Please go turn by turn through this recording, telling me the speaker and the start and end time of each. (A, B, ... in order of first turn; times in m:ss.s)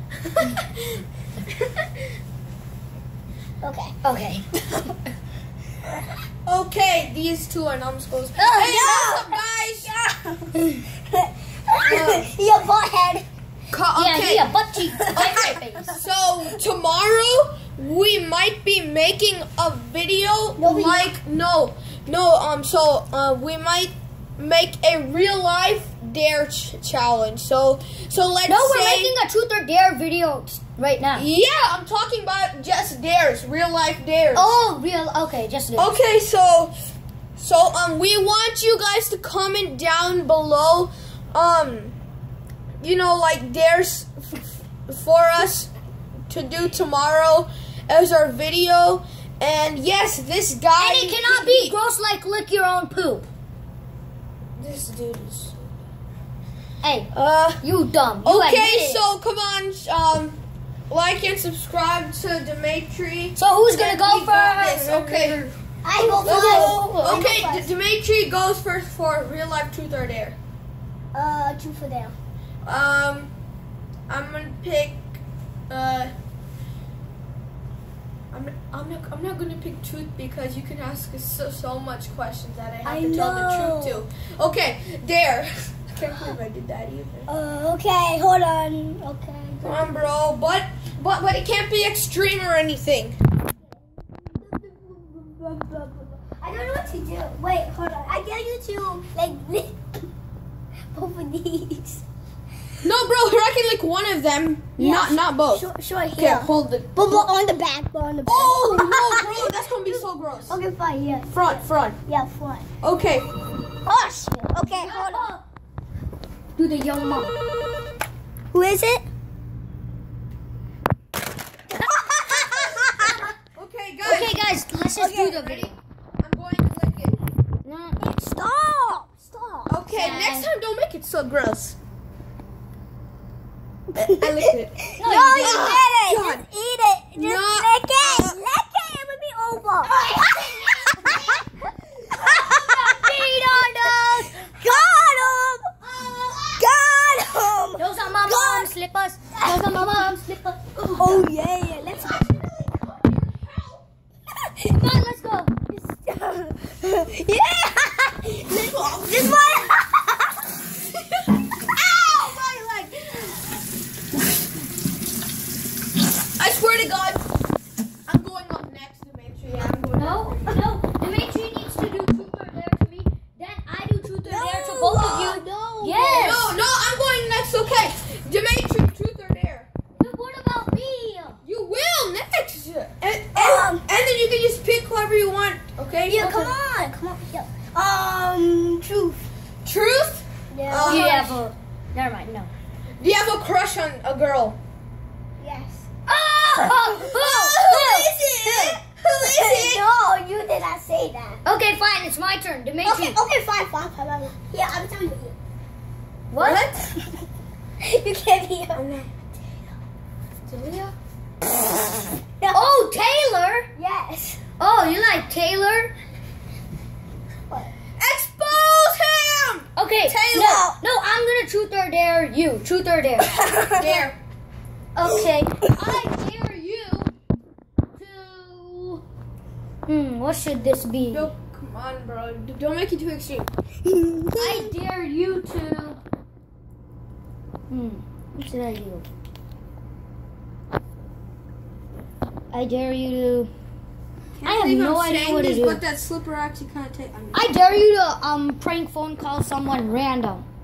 0:03.6-0:04.0 A
0:04.0-0:04.8 B
0:06.4-0:09.9 C
0:08.4-0:08.8 B
0:08.6-0:13.2 A
0:11.9-0:12.3 C
0:13.7-0:14.5 C
0:14.0-0:16.0 B
0:15.1-0:29.2 C
0:20.6-0:21.1 A
0:28.5-0:31.3 B
0:31.1-0:34.6 C
0:34.3-0:36.0 B
0:35.8-0:36.8 C
0:37.4-0:42.0 C
0:42.8-0:45.7 C
0:46.3-0:51.8 C
0:50.8-0:53.3 B
0:54.6-0:55.7 C
0:56.8-0:59.1 B
0:57.1-0:57.6 C
0:58.2-1:00.4 C
1:00.9-1:05.6 C
1:03.4-1:05.5 B
1:05.8-1:07.7 A
1:06.1-1:07.2 B
1:06.2-1:10.4 C
1:11.1-1:12.2 A
1:12.6-1:13.3 C
1:14.1-1:15.2 C
1:15.7-1:16.1 C
1:18.3-1:27.3 C
1:22.8-1:24.0 A
1:27.3-1:30.1 A
1:29.6-1:33.2 C
1:34.0-1:39.8 A
1:40.9-1:42.0 A
1:42.8-1:45.7 C
1:44.8-1:52.7 A
1:46.2-1:47.3 C
1:48.3-1:50.6 C
1:51.3-1:52.0 C
1:52.8-1:53.3 C
1:53.9-1:55.3 A
1:54.7-1:55.5 B
1:56.6-1:57.3 B
1:58.5-1:59.1 A
2:01.8-2:03.3 A
2:03.5-2:04.5 C
2:04.0-2:05.8 B
2:04.9-2:05.4 A
2:05.4-2:07.2 C
2:07.6-2:08.0 B
2:08.0-2:09.8 A
2:09.7-2:11.8 C
2:09.9-2:10.5 B
2:14.0-2:20.4 A
2:14.0-2:14.8 C
2:15.0-2:15.8 B
2:15.4-2:16.4 C
2:17.2-2:18.4 C
2:21.0-2:21.3 A
2:22.1-2:24.5 B
2:22.2-2:22.8 A
2:24.4-2:25.7 A
2:25.8-2:26.6 B
2:26.6-2:28.7 A
2:27.8-2:31.2 B
2:29.3-2:30.1 A
2:31.0-2:32.2 A
2:31.8-2:33.9 C
2:34.6-2:35.5 B
2:35.7-2:40.2 A
2:38.7-2:39.1 C
2:41.7-2:43.4 C
2:46.4-2:47.2 C
2:48.1-2:50.6 C
2:50.0-2:56.5 B
2:54.2-2:56.4 A
2:56.2-2:59.7 C
3:00.0-3:01.4 B
3:01.4-3:06.6 C
3:03.4-3:03.9 A
3:06.1-3:09.2 A
3:09.6-3:11.4 C
3:10.5-3:11.1 A
3:10.8-3:12.5 B
3:13.0-3:14.6 C
3:15.4-3:15.9 A
3:16.1-3:18.1 B
3:16.9-3:19.8 C
3:18.4-3:21.4 A
3:21.4-3:23.2 B
3:22.8-3:25.4 A
3:26.3-3:26.7 B
3:26.4-3:26.9 C
3:27.8-3:28.8 A
3:28.8-3:29.2 C
3:30.5-3:30.9 C
3:32.4-3:32.8 A
3:32.5-3:33.7 B
3:33.8-3:34.4 A
3:34.6-3:35.9 B
3:38.0-3:40.6 C
3:39.8-3:43.4 B
3:40.3-3:40.8 A
3:43.3-3:44.1 A
3:43.8-3:44.2 C
3:45.0-3:47.1 B
3:48.0-3:49.0 B
3:49.9-3:51.3 B
3:51.1-3:53.5 C
3:53.9-3:54.7 A
3:54.4-3:56.0 B
3:57.7-3:59.1 B
4:02.5-4:03.5 B
4:04.4-4:07.5 C
4:04.4-4:05.8 B
4:07.3-4:10.5 B